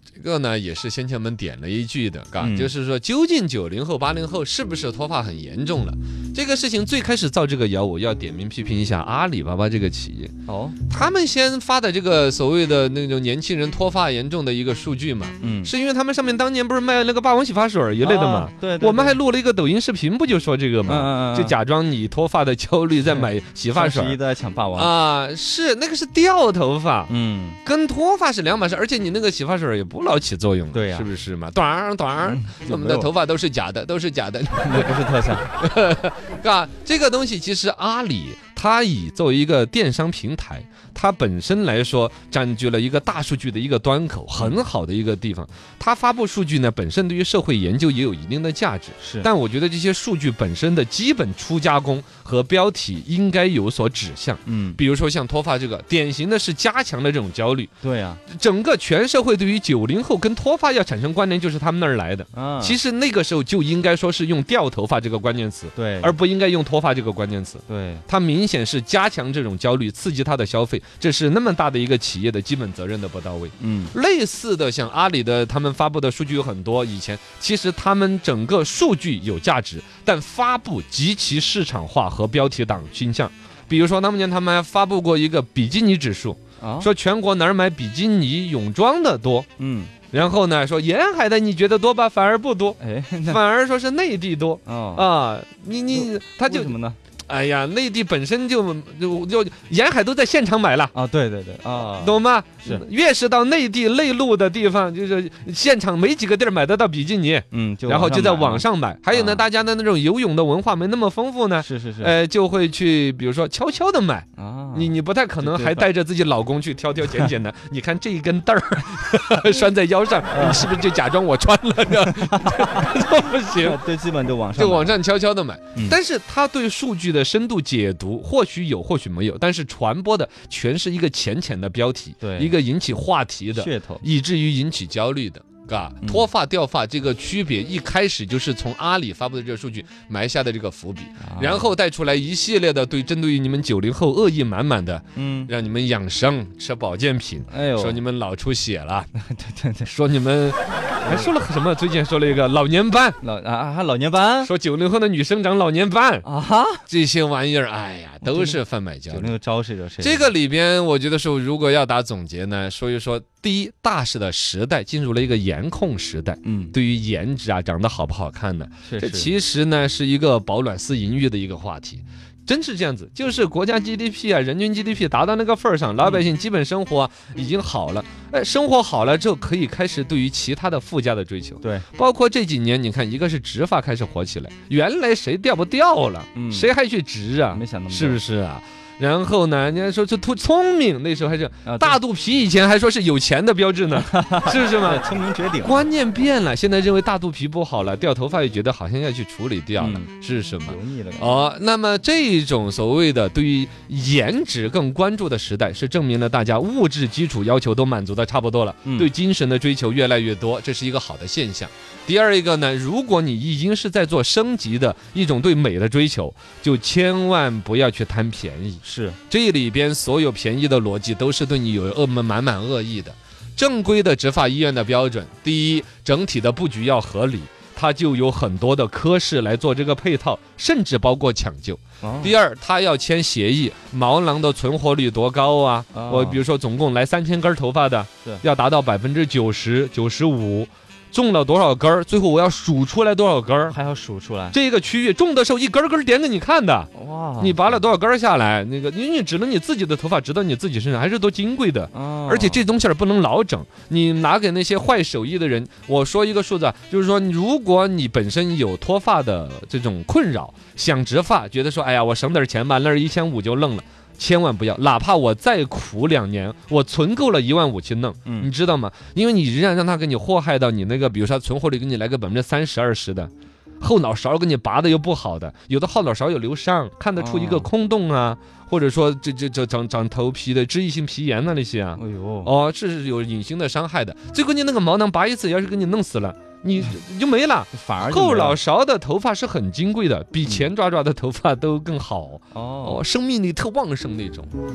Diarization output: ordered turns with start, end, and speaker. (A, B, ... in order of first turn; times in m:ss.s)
0:00.2-0:10.3 A
0:02.4-0:02.7 B
0:10.5-0:10.9 B
0:10.9-0:24.2 A
0:15.4-0:15.7 B
0:18.0-0:19.2 B
0:20.8-0:21.6 B
0:23.0-0:24.9 B
0:24.8-0:27.1 A
0:27.1-0:27.6 B
0:27.6-0:57.7 A
0:30.7-0:31.1 B
0:32.2-0:33.1 B
0:34.6-0:35.4 B
0:49.0-0:49.3 B
0:54.4-0:54.8 B
0:57.8-0:58.2 B
0:58.3-1:29.5 A
1:02.3-1:02.8 B
1:05.8-1:06.1 B
1:07.7-1:08.0 B
1:13.6-1:13.9 B
1:26.6-1:26.9 B
1:29.6-1:29.9 B
1:30.1-1:36.7 A
1:32.8-1:33.4 B
1:34.6-1:35.0 B
1:35.9-1:37.0 B
1:37.2-1:40.9 A
1:40.9-1:42.8 B
1:42.0-2:03.8 A
1:47.5-1:49.4 B
1:51.6-1:52.1 B
1:54.4-1:55.8 B
2:00.3-2:00.8 B
2:02.1-2:02.8 B
2:03.5-2:05.0 B
2:04.5-2:29.1 A
2:12.2-2:12.5 B
2:13.5-2:14.0 B
2:21.2-2:21.7 B
2:25.1-2:25.5 B
2:27.5-2:28.0 B
2:29.1-2:29.9 B
2:29.8-2:33.2 A
2:31.0-2:31.3 B
2:33.2-2:34.5 B
2:34.4-2:36.2 A
2:36.2-2:36.8 B
2:36.9-2:39.3 A
2:38.2-2:38.6 B
2:39.1-2:40.3 B
2:40.0-3:15.0 A
2:46.4-2:46.7 B
2:48.8-2:49.3 B
3:01.6-3:01.9 B
3:06.3-3:06.7 B
3:07.5-3:08.2 B
3:11.6-3:12.0 B
3:13.9-3:15.9 B
3:15.6-4:03.8 A
3:19.8-3:20.1 B
3:20.6-3:21.3 B
3:38.8-3:39.2 B
3:52.0-3:52.3 B
3:55.9-3:56.4 B
4:03.7-4:04.6 B
4:04.5-4:54.5 A
4:06.9-4:07.8 B
4:11.9-4:12.6 B
4:37.2-4:37.7 B
4:42.0-4:42.5 B
4:47.7-4:48.6 B
4:52.5-4:53.0 B